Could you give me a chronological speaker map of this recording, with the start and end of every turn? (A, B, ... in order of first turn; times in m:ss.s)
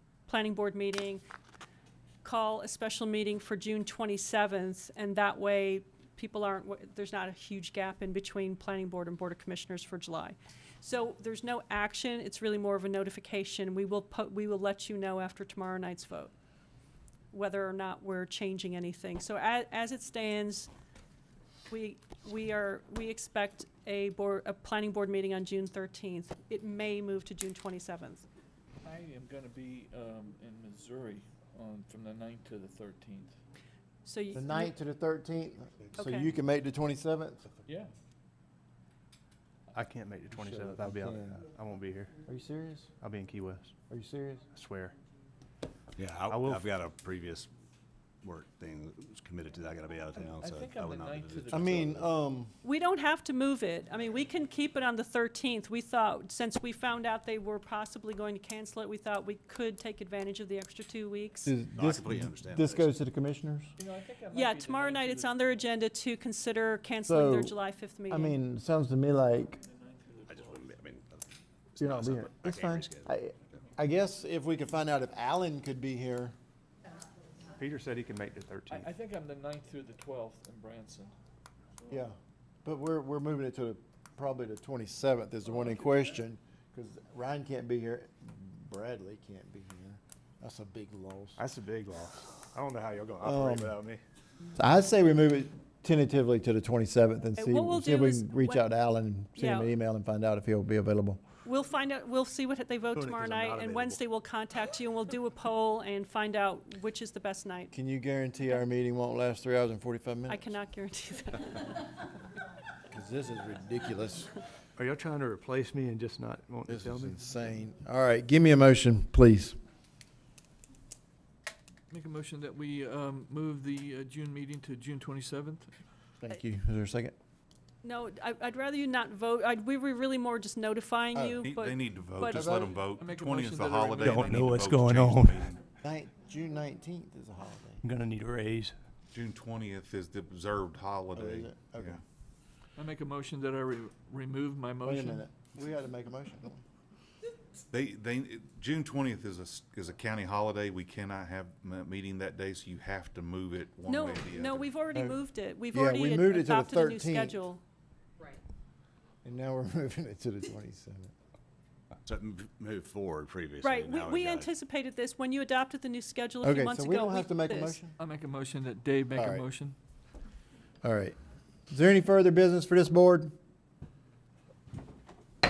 0:00.3-0:01.2 A
0:02.2-0:16.3 A
0:17.3-0:20.7 A
0:21.7-0:28.2 A
0:28.8-0:33.4 B
0:34.0-0:34.7 A
0:34.3-0:37.4 C
0:36.0-0:36.3 A
0:37.7-0:37.9 B
0:39.7-0:42.1 D
0:40.3-0:41.4 C
0:42.2-0:42.9 C
0:43.0-0:43.7 D
0:43.9-0:44.5 C
0:44.5-0:45.0 D
0:46.0-0:47.5 E
0:46.2-0:46.7 D
0:48.2-0:52.1 E
0:50.3-0:51.9 B
0:51.5-0:52.5 C
0:52.6-1:01.5 A
1:01.4-1:03.7 C
1:01.8-1:02.9 E
1:03.8-1:05.6 B
1:04.3-1:08.4 A
1:07.0-1:07.6 C
1:08.1-1:09.6 C
1:09.6-1:10.7 B
1:10.3-1:13.6 E
1:11.8-1:16.3 C
1:17.6-1:18.9 D
1:18.7-1:21.1 B
1:21.9-1:31.4 C
1:31.4-1:34.0 D
1:33.2-1:33.8 C
1:34.6-1:41.2 C
1:37.4-1:38.7 A
1:39.4-1:39.7 A
1:41.4-1:47.7 A
1:42.9-1:44.0 D
1:47.7-1:50.5 C
1:50.3-1:51.8 A
1:52.9-1:54.4 C
1:54.8-1:57.2 D
1:56.7-1:59.6 C
2:01.9-2:05.7 B
2:06.2-2:07.2 C
2:07.8-2:12.5 A
2:11.1-2:11.4 C
2:11.4-2:15.6 F
2:12.2-2:12.8 C
2:13.0-2:14.5 B
2:14.0-2:15.5 D
2:15.8-2:17.8 C
2:17.8-2:18.8 D
2:19.1-2:22.0 F
2:21.1-2:22.0 C
2:22.8-2:25.3 B
2:24.8-2:26.6 C
2:27.7-2:34.7 F
2:33.8-2:37.6 A
2:35.7-2:37.4 C
2:39.2-2:41.1 C
2:42.1-2:44.5 E
2:43.6-2:47.8 A
2:46.4-2:48.0 C
2:48.0-2:49.8 B
2:49.2-2:49.5 C
2:50.8-2:51.2 C
2:51.7-2:53.3 C